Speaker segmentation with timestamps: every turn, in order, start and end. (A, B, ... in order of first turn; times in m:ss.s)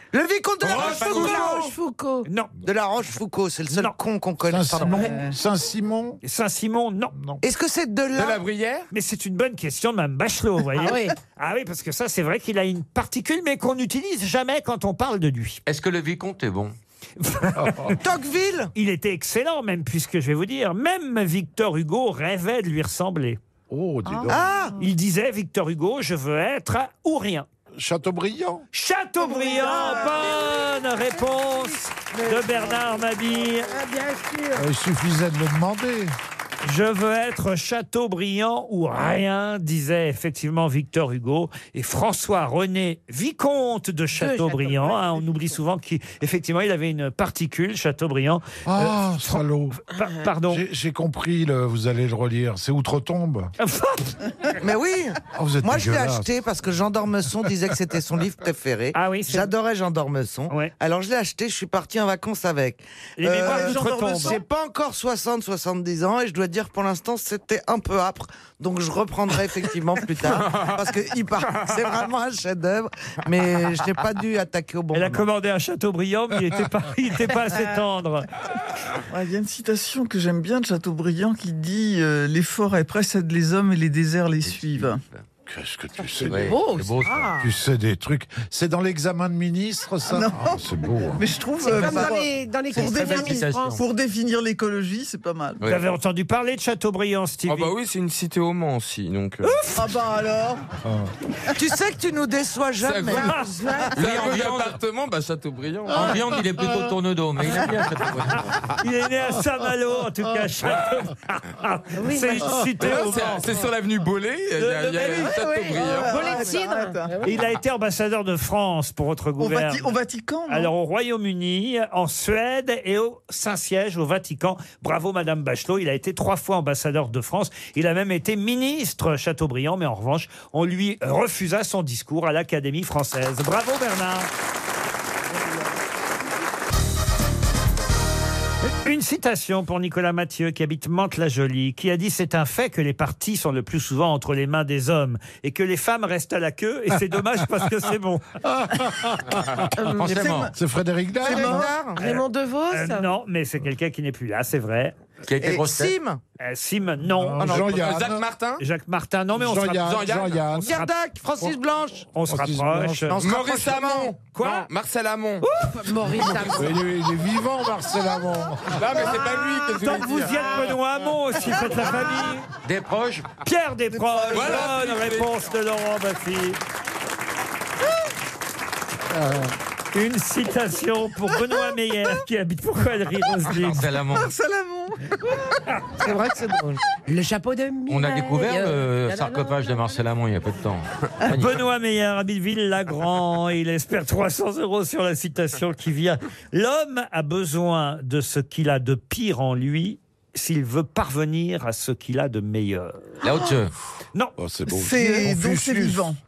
0:00.1-0:01.7 A
0:00.6-0:01.3 B
0:00.7-0:01.0 C
0:00.7-0:02.3 D
0:01.2-0:01.5 E
0:02.2-0:02.5 E
0:02.6-0:05.2 A
0:03.7-0:04.0 E
0:04.5-0:06.2 F
0:05.0-0:05.3 G
0:06.2-0:07.1 E
0:07.1-0:07.4 F
0:07.4-0:08.4 A
0:08.1-0:08.9 C
0:08.9-0:15.6 E
0:10.7-0:11.2 D
0:15.7-0:16.8 B
0:17.2-0:17.9 E
0:17.6-0:17.8 F
0:17.9-0:18.7 A
0:18.8-0:23.4 E
0:23.7-0:24.5 F
0:24.3-0:24.8 A
0:24.8-0:27.5 E
0:27.7-0:28.6 F
0:28.7-0:33.7 E
0:29.2-0:34.7 D
0:34.6-0:36.2 F
0:36.6-0:50.6 E
0:44.2-0:45.6 D
0:48.6-0:49.8 F
0:50.0-0:50.2 D
0:50.5-0:53.5 F
0:53.6-0:54.2 E
0:54.6-1:15.2 A
0:55.3-0:56.3 F
0:58.9-0:59.5 E
1:03.2-1:04.4 E
1:03.4-1:04.4 G
1:14.9-1:18.3 E
1:19.1-1:25.0 G
1:24.4-1:25.2 B
1:25.5-1:26.6 F
1:26.2-1:27.3 B
1:26.3-1:27.5 D
1:27.4-1:31.3 F
1:30.1-1:30.6 G
1:31.2-1:35.6 G
1:31.6-1:33.8 D
1:32.7-1:33.8 B
1:35.6-1:37.7 E
1:37.5-1:39.6 C
1:39.4-1:39.8 E
1:39.7-1:40.7 G
1:40.8-1:41.1 F
1:41.6-1:43.4 A
1:42.8-1:43.3 C
1:43.1-1:43.5 E
1:43.1-1:44.0 D
1:43.9-1:46.2 C
1:43.9-1:44.8 B
1:45.9-1:48.5 B
1:48.8-1:53.5 E
1:52.0-1:52.7 D
1:52.8-1:56.2 C
1:54.6-1:55.3 E
1:54.8-1:57.4 D
1:55.7-1:57.1 G
1:57.2-1:59.9 E
1:59.4-2:00.7 G
2:00.5-2:14.3 E
2:18.7-2:28.3 E
2:28.4-2:29.7 F
2:29.8-2:30.5 D
2:30.0-2:30.5 B
2:30.5-2:31.7 F
2:31.2-2:32.1 A
2:31.2-2:31.7 G
2:31.9-2:33.1 D
2:32.7-2:34.9 E
2:35.3-2:35.9 B
2:35.4-2:36.2 A
2:36.4-2:37.6 E
2:37.2-2:38.3 F
2:37.4-2:37.7 A
2:37.4-2:38.6 C
2:38.6-2:40.9 E
2:39.3-2:40.8 F
2:39.8-2:40.4 C
2:40.6-2:42.1 A
2:42.1-2:43.2 E
2:42.2-2:43.3 F
2:43.2-2:44.2 A
2:43.2-2:45.4 C
2:44.3-2:44.7 E
2:45.6-2:46.8 D
2:46.0-2:46.6 C
2:46.6-2:49.1 F
2:48.8-2:50.6 C
2:49.8-2:52.5 E
2:52.6-2:53.3 B
2:53.4-2:56.6 E
2:53.9-2:54.8 G
2:54.3-2:55.3 C
2:59.9-3:03.9 E
3:03.5-3:04.3 B
3:04.1-3:05.4 G
3:06.0-3:06.8 A
3:07.0-3:09.9 D
3:07.9-3:11.6 B
3:11.3-3:23.1 E
3:23.2-3:23.7 B
3:24.4-3:26.2 F
3:24.7-3:26.2 G